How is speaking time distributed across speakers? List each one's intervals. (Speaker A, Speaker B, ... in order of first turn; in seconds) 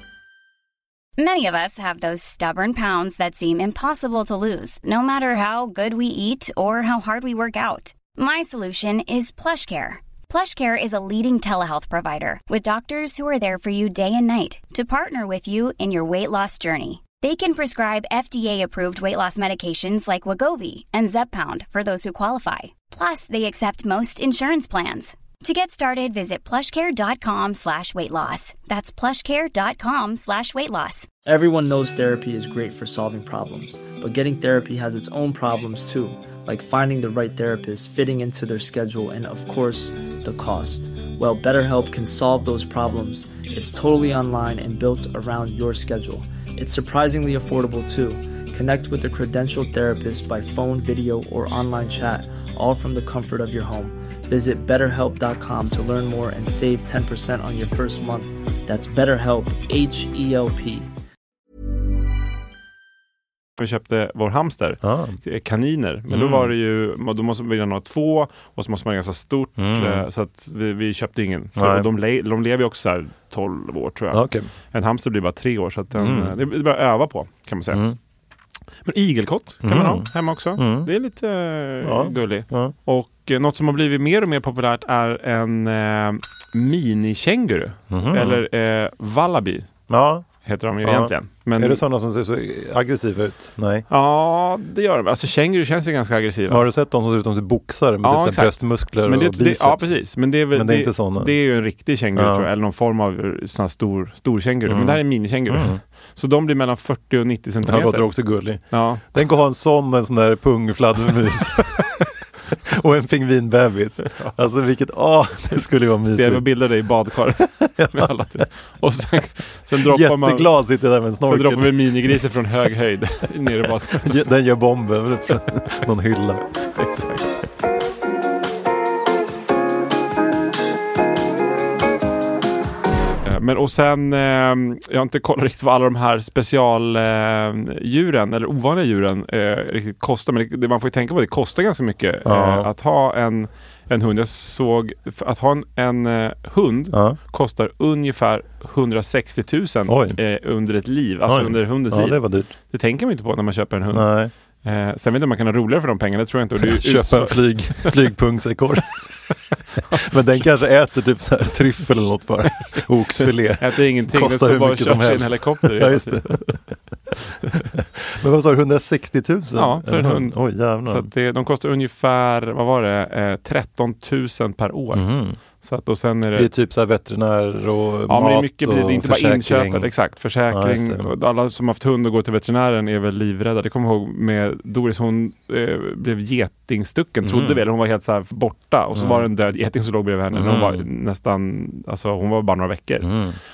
Speaker A: 1.2-31.1
Speaker B: 31.3-60.9
Speaker C: 63.6-77.8, 78.8-89.7, 90.4-91.8, 93.9-96.7, 98.0-109.0, 114.1-114.4, 116.0-120.5, 121.3-124.3, 126.7-127.3, 133.2-154.1, 154.6-157.9, 159.8-160.4, 162.6-166.4, 169.6-176.5, 178.1-193.2
Speaker D: 64.8-65.2, 66.1-66.5, 69.6-70.0, 71.6-71.9, 74.1-74.5, 75.9-76.3, 77.7-78.0, 79.6-80.9, 81.8-82.7, 87.9-88.4, 89.9-90.3, 90.8-93.9, 96.5-101.3, 102.2-102.5, 104.7-105.8, 107.6-112.0, 112.7-116.5, 117.6-118.1, 119.7-122.1, 124.0-126.4, 142.2-142.7, 146.9-147.2, 149.9-150.2, 151.3-152.5, 153.9-154.3, 156.6-159.0, 160.0-166.6, 167.7-171.1, 174.9-175.4, 176.3-179.9, 180.5-181.1, 187.2-187.6, 188.9-189.3, 190.3-190.8, 193.0-193.4